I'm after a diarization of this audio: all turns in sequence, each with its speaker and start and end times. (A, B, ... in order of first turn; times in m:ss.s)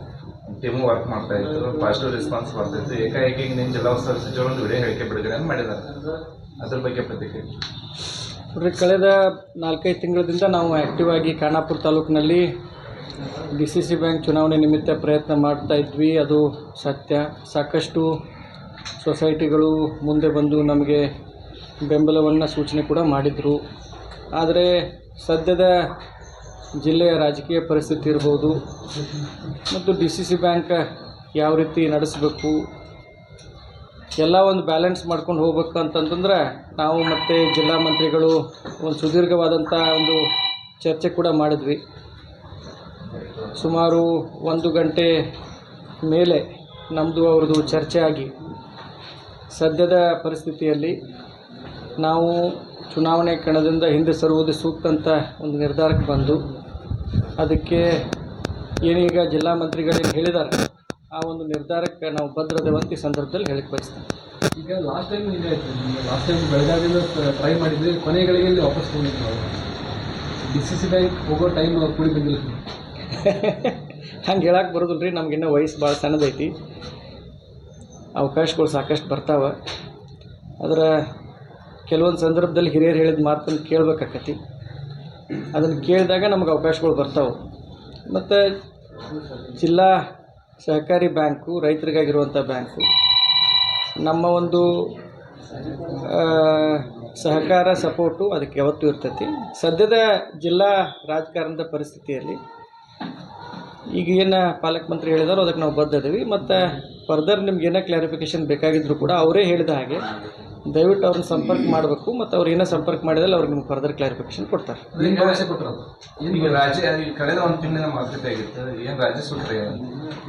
0:00.5-0:05.9 A
0:06.6-0:07.5 A
0:08.5-0:12.5 B
0:13.5-0:18.1 B
0:19.0-0:21.1 B
0:21.8-0:23.6 B
0:24.4-0:25.7 B
0:26.8-0:28.6 B
0:29.7-0:30.8 B
0:31.4-0:32.6 B
0:34.2-0:40.2 B
0:40.8-0:41.8 B
0:43.6-0:45.1 B
0:46.0-0:48.3 B
0:49.5-0:51.0 B
0:52.0-0:56.4 B
0:57.4-0:58.0 B
0:58.8-1:00.6 B
1:01.1-1:04.1 B
1:04.5-1:09.6 C
1:10.4-1:12.6 C
1:13.1-1:16.5 B
1:18.2-1:19.6 B
1:20.6-1:20.9 B
1:21.9-1:24.4 B
1:25.5-1:27.4 B
1:28.1-1:28.4 B
1:29.5-1:29.9 B
1:30.6-1:32.9 B
1:34.0-1:34.9 B
1:35.9-1:42.4 B
1:43.9-1:50.1 B
1:50.6-1:54.9 B
1:54.9-1:56.8 C
1:55.0-1:55.4 A
1:56.3-1:59.8 A